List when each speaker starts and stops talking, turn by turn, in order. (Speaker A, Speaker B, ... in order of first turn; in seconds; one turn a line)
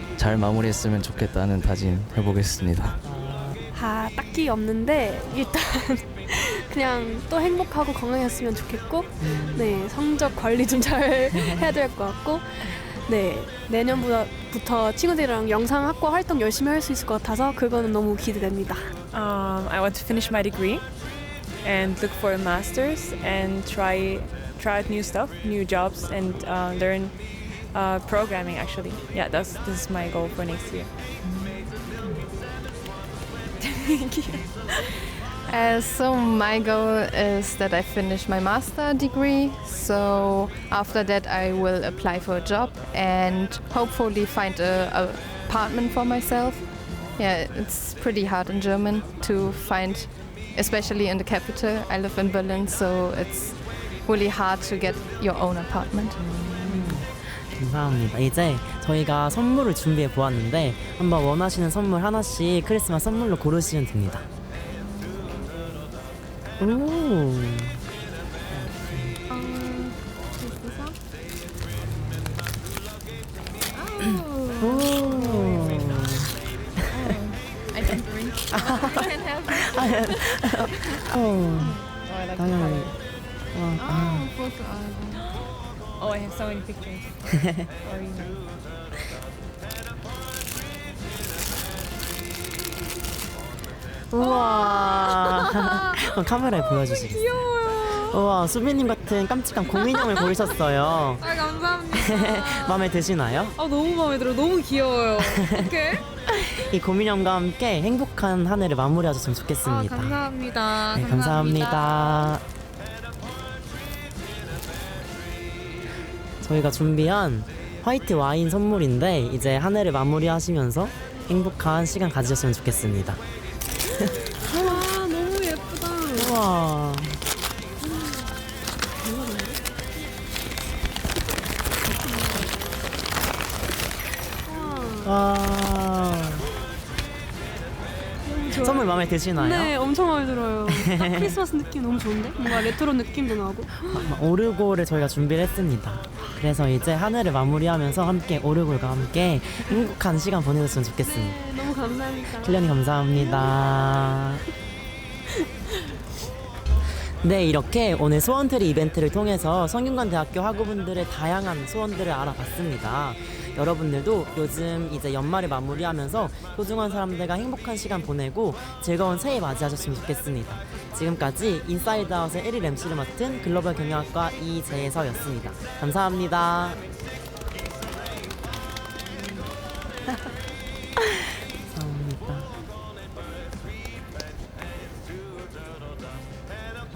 Speaker A: 0.1-3.0
Speaker B: 3.0-3.5
Speaker C: 3.7-18.9
Speaker B: 9.2-9.8
Speaker D: 19.1-30.9
Speaker B: 31.2-31.6
Speaker D: 33.6-34.7
Speaker E: 35.5-56.2
Speaker B: 56.2-64.2
Speaker B: 66.6-67.8
Speaker B: 68.5-69.2
Speaker E: 69.3-71.0
Speaker E: 73.7-75.5
Speaker B: 74.6-76.1
Speaker E: 76.9-83.2
Speaker B: 78.5-79.0
Speaker B: 79.5-84.3
Speaker E: 83.8-85.3
Speaker D: 85.1-88.5
Speaker B: 94.1-101.2
Speaker F: 94.2-95.9
Speaker F: 96.6-98.2
Speaker F: 99.8-100.3
Speaker F: 101.2-102.8
Speaker B: 101.9-103.5
Speaker F: 103.5-106.6
Speaker B: 105.2-105.7
Speaker B: 106.6-110.2
Speaker F: 109.6-112.3
Speaker B: 110.9-112.4
Speaker B: 116.4-123.2
Speaker C: 124.4-126.4
Speaker B: 126.1-127.2
Speaker C: 127.8-128.3
Speaker C: 129.0-129.6
Speaker C: 132.0-132.6
Speaker C: 134.4-135.1
Speaker B: 135.0-136.4
Speaker C: 138.2-144.1
Speaker B: 138.5-139.7
Speaker B: 140.7-141.4
Speaker B: 143.9-151.4
Speaker C: 151.0-154.2
Speaker B: 152.3-154.4
Speaker B: 157.2-176.8
Speaker B: 179.1-179.4
Speaker B: 181.7-182.5